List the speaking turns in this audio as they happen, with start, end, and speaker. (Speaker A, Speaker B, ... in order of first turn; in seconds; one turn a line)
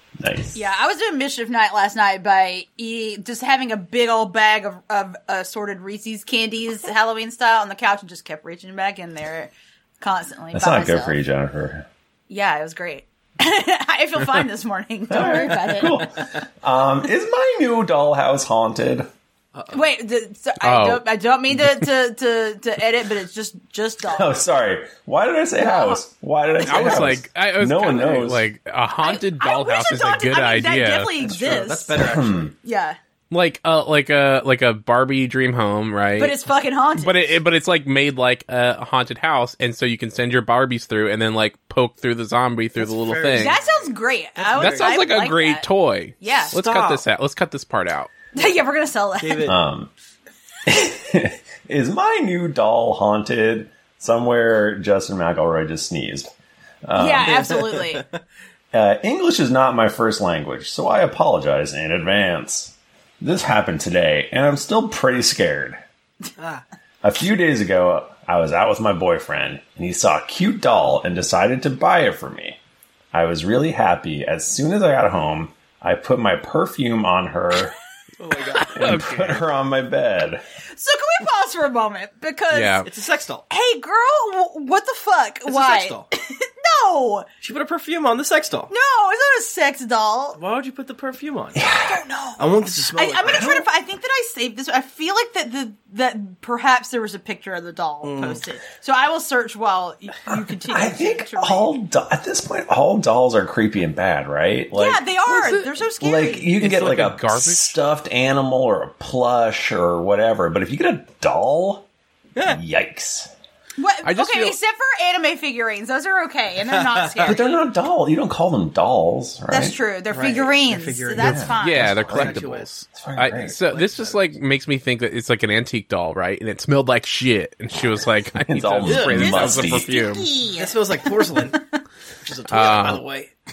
Speaker A: 0.2-0.7
Speaker B: 0.5-11.2
Speaker A: 10.5-11.9
Speaker B: 12.3-16.1
Speaker A: 15.1-19.1
Speaker C: 15.5-15.9
Speaker C: 19.6-19.9
Speaker B: 19.7-24.4
Speaker D: 20.6-21.1
Speaker A: 24.0-28.5
Speaker B: 25.6-26.0
Speaker D: 26.6-31.3
Speaker B: 29.0-32.0
Speaker C: 31.2-32.5
Speaker A: 31.5-32.5
Speaker B: 32.6-33.0
Speaker D: 33.3-36.4
Speaker B: 36.2-37.2
Speaker D: 37.0-43.6
Speaker C: 42.8-45.0
Speaker B: 43.3-45.7
Speaker D: 44.5-48.1
Speaker B: 46.2-46.6
Speaker C: 46.5-47.0
Speaker B: 48.3-49.5
Speaker C: 49.2-49.6
Speaker A: 49.5-49.9
Speaker A: 50.7-56.3
Speaker A: 56.9-57.8
Speaker B: 57.0-58.0
Speaker C: 57.3-58.2
Speaker A: 58.7-65.8
Speaker C: 66.4-66.6
Speaker A: 67.0-72.6
Speaker A: 73.1-77.7
Speaker C: 78.2-79.0
Speaker D: 78.5-79.5
Speaker A: 78.7-80.4
Speaker B: 80.7-82.9
Speaker D: 82.5-82.9
Speaker C: 82.8-83.5
Speaker B: 83.5-87.3
Speaker C: 85.5-86.1
Speaker C: 87.4-88.7
Speaker B: 88.7-90.4
Speaker C: 90.4-91.6
Speaker A: 91.6-92.0
Speaker B: 91.8-101.8
Speaker C: 92.4-93.6
Speaker C: 98.0-98.4
Speaker A: 100.3-111.9
Speaker B: 104.7-106.5
Speaker D: 106.6-107.8
Speaker A: 112.5-113.3
Speaker B: 113.8-117.6
Speaker D: 114.0-114.6
Speaker C: 116.7-117.3
Speaker A: 117.2-119.8
Speaker B: 119.5-121.9
Speaker C: 120.1-122.7
Speaker A: 121.2-122.4
Speaker D: 121.5-130.3
Speaker A: 122.9-123.8
Speaker C: 123.7-124.3
Speaker A: 128.5-129.9
Speaker C: 128.8-129.2
Speaker B: 129.1-131.8
Speaker C: 130.6-131.6
Speaker C: 132.2-133.3
Speaker D: 132.5-133.1